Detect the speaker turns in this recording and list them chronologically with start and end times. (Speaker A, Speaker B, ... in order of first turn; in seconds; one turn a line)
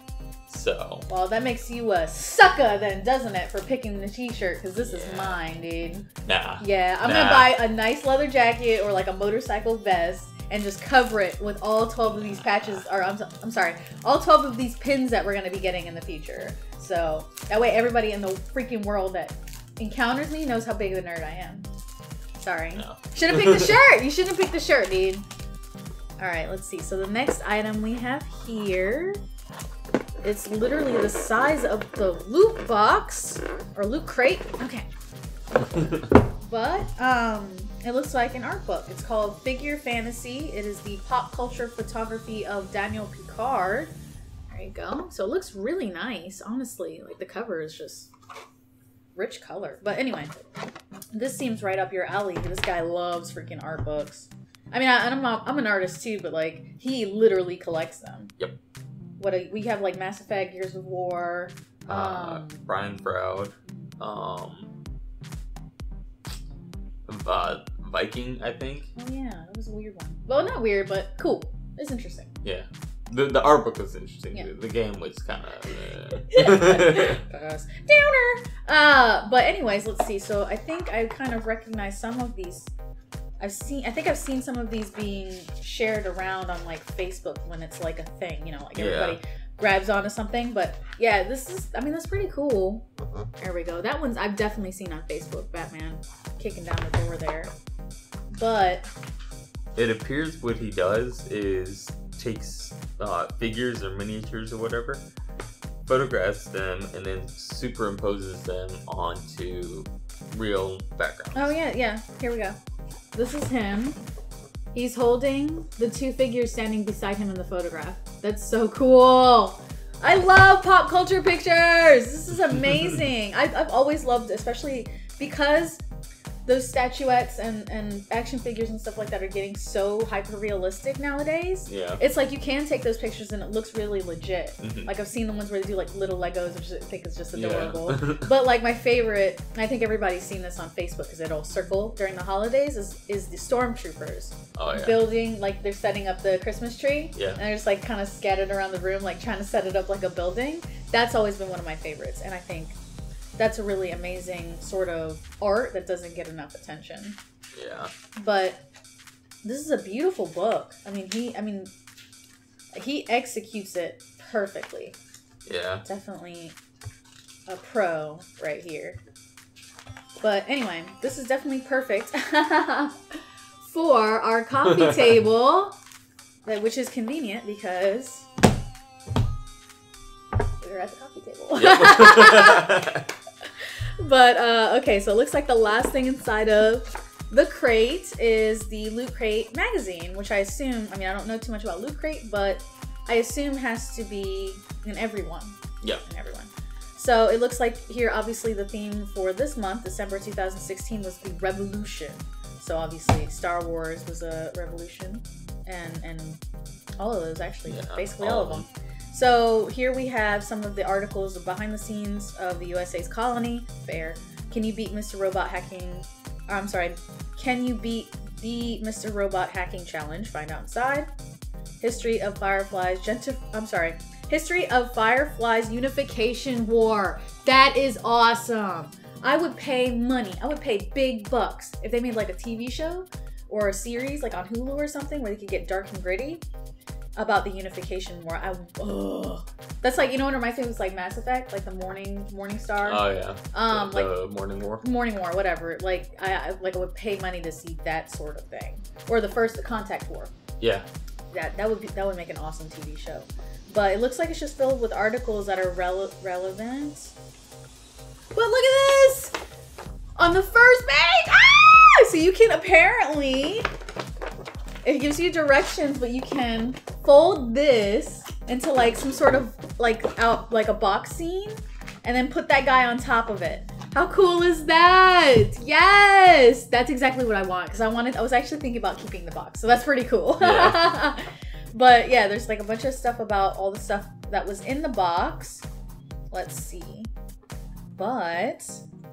Speaker A: 0.5-1.1
Speaker B: 1.1-6.1
Speaker A: 4.8-5.4
Speaker A: 6.2-7.5
Speaker B: 6.6-21.7
Speaker A: 12.1-12.8
Speaker B: 22.4-25.3
Speaker A: 22.8-23.8
Speaker B: 26.2-29.2
Speaker B: 30.2-34.9
Speaker A: 35.6-36.0
Speaker B: 36.4-43.9
Speaker B: 44.5-48.1
Speaker B: 49.2-50.3
Speaker B: 51.1-58.3
Speaker B: 59.2-62.6
Speaker A: 61.9-64.7
Speaker A: 67.1-68.9
Speaker B: 69.0-72.3
Speaker A: 72.4-77.2
Speaker B: 76.3-82.7
Speaker B: 83.4-92.8
Speaker A: 88.8-89.2
Speaker B: 93.4-97.5
Speaker B: 98.3-98.9
Speaker A: 99.8-105.0
Speaker A: 105.9-111.6
Speaker B: 111.3-112.6
Speaker B: 113.1-114.0
Speaker B: 114.7-125.8
Speaker B: 126.5-152.8
Speaker A: 131.7-132.0
Speaker A: 134.6-134.9
Speaker A: 137.3-138.3
Speaker A: 144.6-145.0
Speaker A: 147.2-147.4
Speaker B: 153.4-157.2
Speaker A: 157.5-157.9
Speaker B: 158.2-158.6
Speaker B: 159.4-161.7
Speaker B: 162.7-165.0
Speaker A: 165.5-165.8
Speaker B: 165.8-166.6
Speaker B: 167.5-169.0
Speaker B: 170.2-172.9
Speaker B: 173.6-175.8
Speaker A: 174.7-175.2
Speaker B: 176.4-178.3
Speaker B: 180.6-182.9
Speaker A: 181.6-183.1
Speaker B: 184.0-206.4
Speaker B: 207.0-221.1
Speaker A: 207.7-208.7
Speaker B: 221.8-236.4
Speaker B: 237.2-244.2
Speaker A: 242.8-244.9
Speaker B: 244.8-250.3
Speaker A: 250.6-250.9
Speaker B: 251.3-257.1
Speaker B: 258.3-259.4
Speaker B: 260.2-263.7
Speaker B: 264.9-285.6
Speaker A: 280.4-280.9
Speaker B: 286.3-287.1
Speaker B: 288.0-288.8